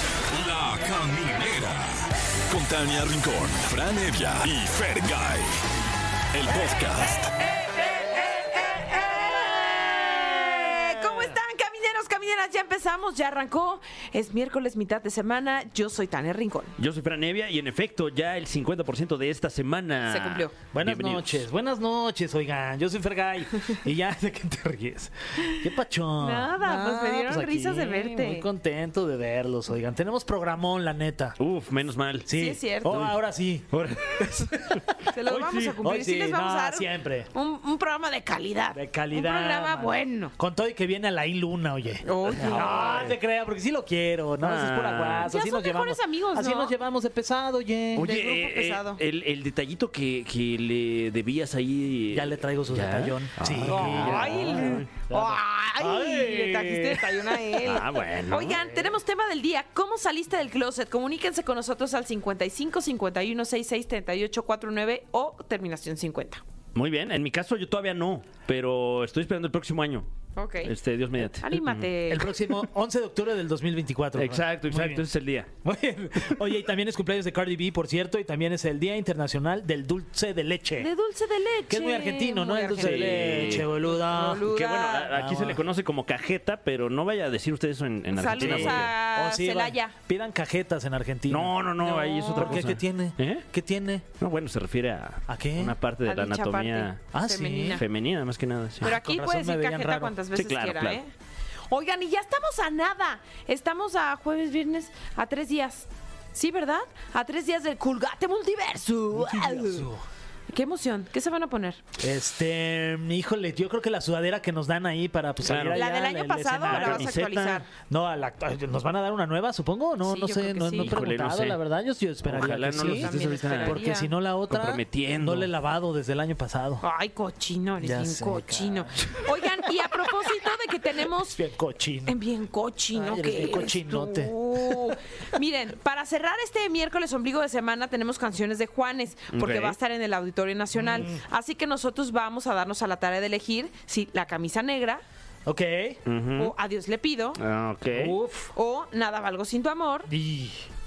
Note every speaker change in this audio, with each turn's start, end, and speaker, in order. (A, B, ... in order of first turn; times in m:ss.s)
0:00.3-0:01.9 A
0:02.5-0:05.5 A
0:06.3-0:07.3 A
0:07.9-0:16.7 B
0:16.8-0:21.4 C
0:20.1-0:20.5 B
0:20.7-0:31.4 D
0:26.2-0:28.5 B
0:31.4-0:32.3 C
0:32.2-0:37.3 D
0:32.3-0:33.0 B
0:32.8-0:33.2 C
0:33.7-0:34.8 C
0:35.1-0:40.3 B
0:38.7-0:48.1 D
0:42.0-0:43.0 B
0:42.2-0:43.2 C
0:44.4-0:45.3 C
0:45.3-0:46.7 B
0:48.0-0:54.9 C
0:48.0-0:49.0 B
0:52.1-0:57.3 D
0:53.6-1:06.4 B
0:57.6-0:58.6 C
0:58.6-0:58.9 D
1:06.7-1:10.1 C
1:10.3-1:10.7 B
1:10.6-1:11.9 C
1:11.4-1:12.3 B
1:12.1-1:15.0 D
1:14.2-1:15.5 C
1:15.6-1:20.9 D
1:20.8-1:25.1 B
1:21.7-1:24.5 D
1:22.8-1:23.7 C
1:24.4-1:28.9 C
1:25.1-1:25.6 D
1:28.1-1:29.9 B
1:28.4-1:31.7 D
1:31.3-1:33.4 C
1:31.8-1:32.6 B
1:32.3-1:34.0 D
1:34.2-1:37.1 C
1:35.3-1:35.8 D
1:36.1-1:37.8 B
1:37.1-1:37.8 D
1:37.8-1:38.9 C
1:38.8-1:40.1 D
1:38.8-1:41.1 B
1:40.3-1:41.0 C
1:41.7-1:49.9 B
1:49.1-1:50.0 D
1:50.5-1:51.8 B
1:52.0-1:57.1 D
1:55.4-1:55.8 C
1:55.7-1:57.7 B
1:56.6-1:57.6 C
1:57.9-2:06.8 D
2:00.0-2:01.0 B
2:00.8-2:01.6 C
2:02.2-2:03.8 C
2:02.7-2:04.1 B
2:04.5-2:05.5 C
2:06.8-2:11.4 B
2:07.8-2:09.4 D
2:11.2-2:12.2 D
2:12.0-2:25.0 B
2:12.9-2:14.9 D
2:19.3-2:19.8 C
2:20.8-2:21.2 D
2:25.4-2:26.0 D
2:26.0-2:26.5 C
2:26.4-2:27.4 B
2:27.4-2:28.2 C
2:27.9-2:28.5 D
2:28.5-2:30.1 B
2:30.1-2:30.6 D